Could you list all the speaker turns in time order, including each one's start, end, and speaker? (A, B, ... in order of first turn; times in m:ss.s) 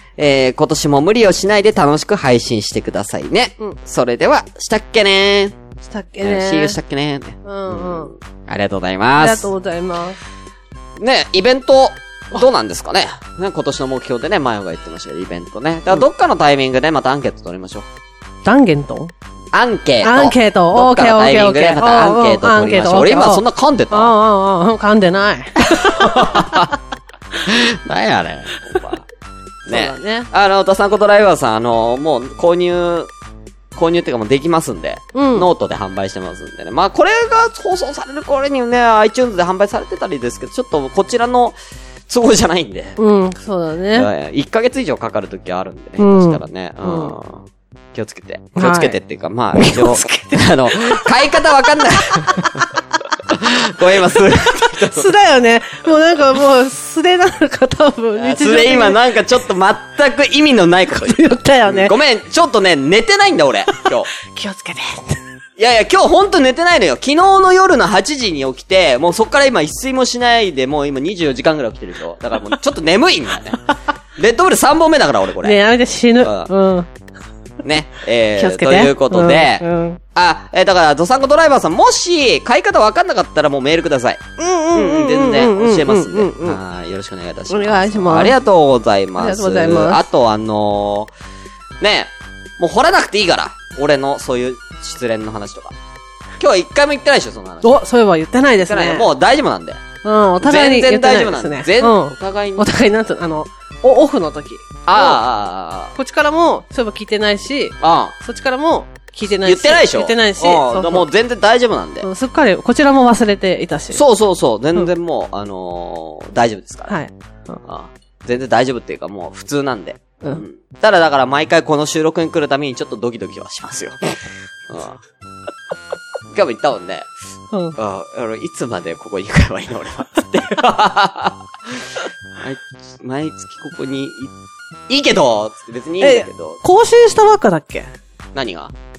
0:00.2-0:05.6 A
0:05.8-0:06.8 B
0:06.2-0:09.5 A
0:07.4-0:08.1 B
0:09.2-0:10.2 B
0:11.0-0:17.9 A
0:18.4-0:19.1 B
0:19.5-0:24.1 A
0:20.0-0:26.7 B
0:25.6-0:26.7 A
0:27.4-0:29.0 A
0:29.7-0:30.3 B
0:29.7-0:33.1 A
0:33.7-0:41.5 A
0:35.1-0:35.5 B
0:42.1-0:43.0 A
0:43.0-0:44.1 B
0:43.9-0:52.6 A
0:46.0-0:47.2 B
0:48.6-0:49.0 B
0:49.5-0:51.2 B
0:51.9-0:52.6 B
0:53.3-0:55.1 A
0:54.2-0:59.0 B
0:58.2-1:04.1 A
1:00.9-1:01.9 B
1:04.2-1:05.2 B
1:05.6-1:13.6 A
1:14.2-1:15.6 A
1:15.4-1:16.9 B
1:16.2-1:16.5 A
1:17.6-1:31.1 A
1:18.3-1:20.0 B
1:24.4-1:26.6 B
1:27.5-1:28.4 B
1:29.2-1:30.0 B
1:31.8-1:35.7 A
1:36.4-1:37.8 A
1:37.6-1:39.1 B
1:38.6-1:39.8 A
1:40.0-1:45.2 B
1:40.4-1:42.7 A
1:44.8-1:45.9 A
1:45.9-1:51.1 B
1:47.8-1:48.1 A
1:49.4-1:52.1 A
1:52.0-1:54.0 B
1:53.9-1:56.9 A
1:56.9-1:57.6 B
1:57.6-2:04.1 A
2:04.7-2:05.0 A
2:06.3-2:07.1 A
2:07.5-2:07.8 B
2:07.8-2:14.3 A
2:14.9-2:16.6 A
2:16.0-2:17.9 B
2:18.3-2:18.7 A